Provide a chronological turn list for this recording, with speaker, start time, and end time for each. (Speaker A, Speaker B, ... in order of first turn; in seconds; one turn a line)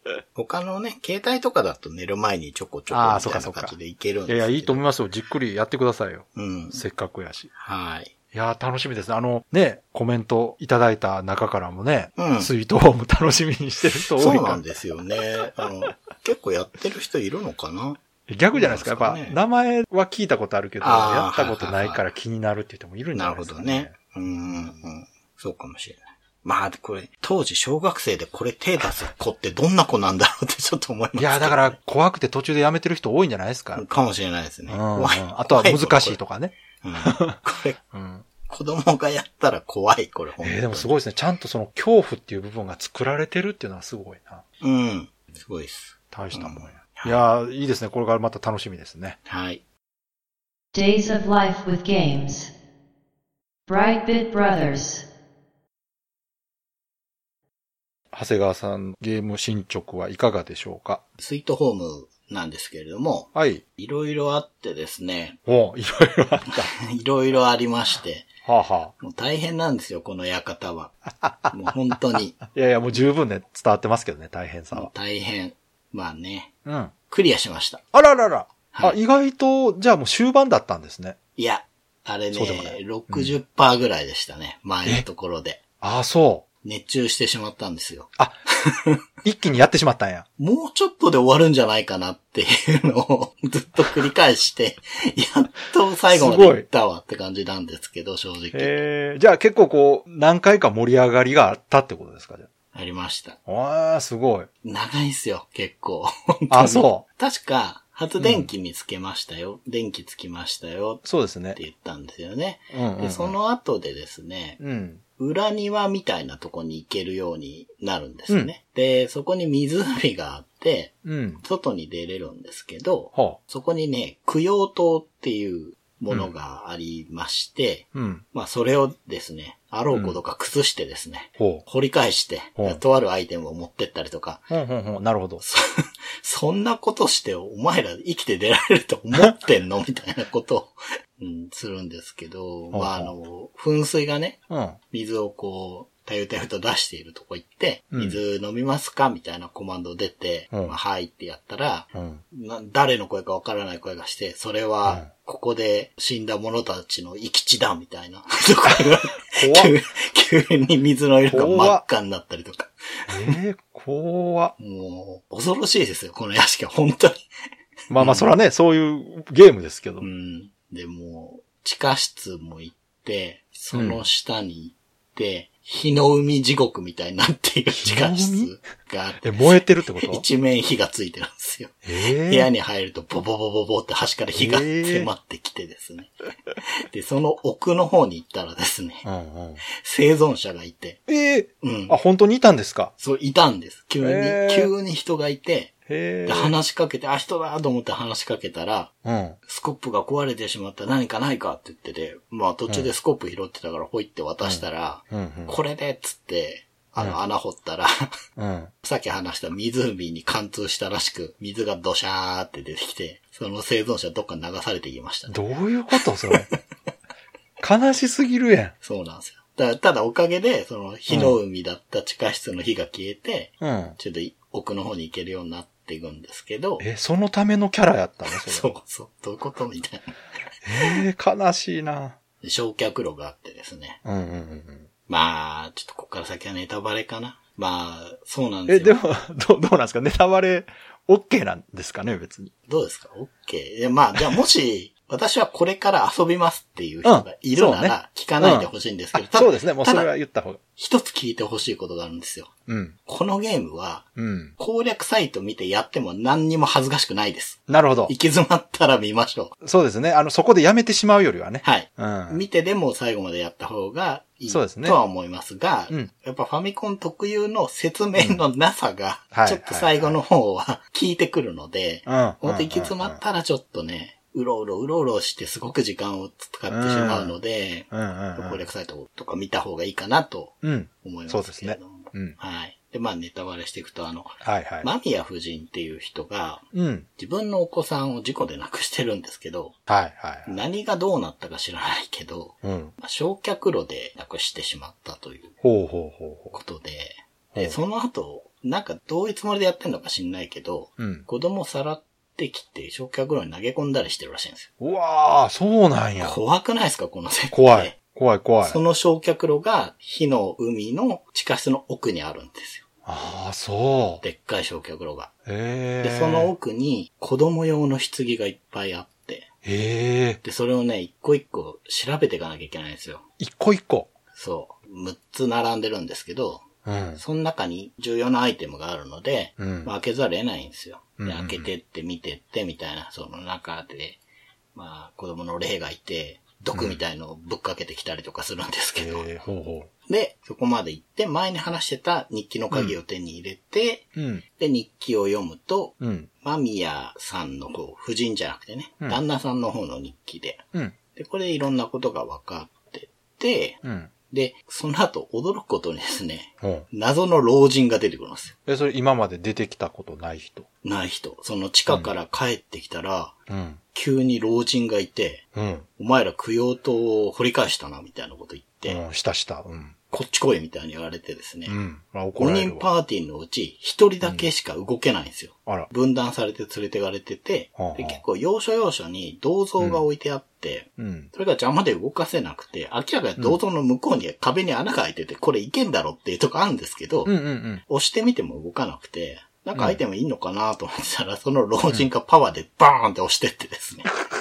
Speaker A: 0.3-4.8
Speaker B: 2.9-3.8
Speaker B: 4.3-7.5
Speaker A: 6.3-6.8
Speaker A: 7.5-8.1
Speaker B: 8.3-14.6
Speaker A: 12.2-12.5
Speaker A: 13.9-18.0
Speaker B: 18.3-23.9
Speaker A: 18.5-19.4
Speaker A: 20.8-22.1
Speaker A: 23.1-31.8
Speaker B: 31.2-33.9
Speaker A: 33.7-36.2
Speaker B: 34.7-37.4
Speaker A: 36.8-37.8
Speaker B: 37.9-38.2
Speaker A: 38.4-40.9
Speaker B: 40.4-44.4
Speaker A: 44.6-47.2
Speaker B: 46.1-49.2
Speaker A: 49.2-49.6
Speaker C: 50.7-52.5
Speaker C: 53.7-55.0
Speaker B: 58.1-61.0
Speaker A: 61.2-65.4
Speaker B: 63.3-63.6
Speaker B: 65.5-66.7
Speaker A: 66.7-68.3
Speaker B: 68.4-68.9
Speaker A: 69.0-70.9
Speaker B: 71.2-71.6
Speaker A: 71.5-72.4
Speaker B: 72.4-74.9
Speaker A: 74.7-76.5
Speaker B: 76.7-76.9
Speaker A: 77.1-77.8
Speaker B: 77.9-81.2
Speaker A: 78.7-79.0
Speaker A: 81.4-85.6
Speaker B: 82.3-83.3
Speaker B: 85.8-86.4
Speaker A: 86.6-88.1
Speaker A: 88.6-89.0
Speaker B: 89.2-90.2
Speaker A: 90.4-98.8
Speaker B: 96.1-96.7
Speaker B: 98.5-102.5
Speaker A: 102.7-103.4
Speaker B: 103.5-104.5
Speaker A: 104.6-114.6
Speaker B: 106.5-107.0
Speaker B: 108.2-108.5
Speaker B: 111.0-111.6
Speaker B: 112.7-113.3
Speaker B: 114.6-115.0
Speaker A: 115.2-134.5
Speaker B: 121.0-121.4
Speaker B: 127.9-128.2
Speaker B: 129.9-130.2
Speaker B: 131.4-131.6
Speaker B: 134.5-135.4
Speaker A: 135.4-163.4
Speaker B: 142.7-143.1
Speaker B: 144.5-144.8
Speaker B: 147.9-148.2
Speaker B: 151.9-152.2
Speaker B: 159.2-159.7
Speaker B: 161.3-161.8
Speaker B: 163.1-164.5
Speaker A: 164.6-167.2
Speaker B: 167.9-170.1
Speaker A: 167.9-168.3
Speaker A: 170.0-186.1
Speaker B: 173.7-174.0
Speaker B: 177.8-178.6
Speaker B: 179.2-180.2
Speaker B: 181.8-182.5
Speaker B: 184.3-185.1
Speaker A: 186.9-189.1
Speaker B: 189.0-189.6
Speaker A: 189.7-191.0
Speaker B: 191.1-192.9
Speaker A: 191.6-192.0
Speaker A: 193.0-198.9
Speaker B: 194.0-194.7
Speaker B: 195.9-196.5
Speaker B: 199.0-199.4
Speaker A: 199.4-207.9
Speaker B: 204.4-205.6
Speaker B: 208.4-208.7
Speaker A: 208.8-215.4
Speaker B: 215.3-216.5
Speaker A: 216.0-216.4
Speaker B: 217.6-218.7
Speaker A: 218.8-226.8
Speaker B: 221.1-221.4
Speaker B: 223.6-224.0
Speaker B: 226.8-228.7
Speaker A: 228.3-230.1
Speaker B: 230.6-232.2
Speaker A: 230.8-231.0
Speaker A: 232.4-234.0
Speaker B: 234.0-234.9
Speaker A: 235.1-239.0
Speaker B: 238.7-242.5
Speaker A: 242.7-250.1
Speaker B: 247.0-250.6
Speaker A: 250.8-252.5
Speaker B: 252.7-252.9
Speaker A: 253.1-254.1
Speaker B: 254.2-254.5
Speaker A: 254.6-259.5
Speaker B: 257.7-258.1
Speaker B: 259.6-262.4
Speaker A: 261.6-286.6
Speaker B: 264.5-265.0
Speaker B: 269.3-270.2
Speaker B: 272.1-273.2
Speaker B: 276.7-277.4
Speaker B: 277.9-278.6
Speaker B: 280.6-282.4
Speaker B: 284.4-284.9
Speaker B: 286.7-287.1
Speaker A: 287.2-289.8
Speaker B: 289.9-290.5
Speaker A: 290.4-295.5
Speaker B: 292.6-292.9
Speaker B: 295.6-296.5
Speaker A: 296.5-304.7
Speaker B: 301.0-301.2
Speaker B: 304.8-306.4
Speaker A: 306.2-307.9
Speaker B: 307.5-308.8
Speaker A: 308.6-312.8
Speaker B: 313.0-314.2
Speaker A: 314.2-315.3
Speaker B: 315.4-316.5
Speaker A: 316.0-319.5
Speaker B: 319.6-320.4
Speaker A: 320.4-323.2
Speaker B: 323.4-324.1
Speaker A: 324.3-326.6
Speaker B: 326.8-327.2
Speaker A: 327.2-334.2
Speaker B: 329.6-329.9
Speaker B: 331.2-331.7
Speaker A: 334.7-339.3
Speaker B: 336.7-337.0
Speaker B: 339.0-339.9
Speaker A: 340.1-358.5
Speaker B: 342.7-342.9
Speaker B: 344.1-344.4
Speaker B: 346.0-346.3
Speaker B: 353.8-354.1
Speaker B: 356.6-356.9
Speaker B: 358.6-360.7
Speaker A: 360.8-363.3
Speaker B: 363.5-363.8
Speaker A: 363.9-365.4
Speaker B: 365.5-365.9
Speaker A: 366.0-369.0
Speaker B: 368.9-369.9
Speaker A: 370.1-371.8
Speaker B: 371.6-372.9
Speaker A: 372.4-387.3
Speaker B: 377.8-378.2
Speaker B: 381.0-381.3
Speaker B: 387.2-387.8
Speaker A: 387.9-394.1
Speaker B: 389.7-390.0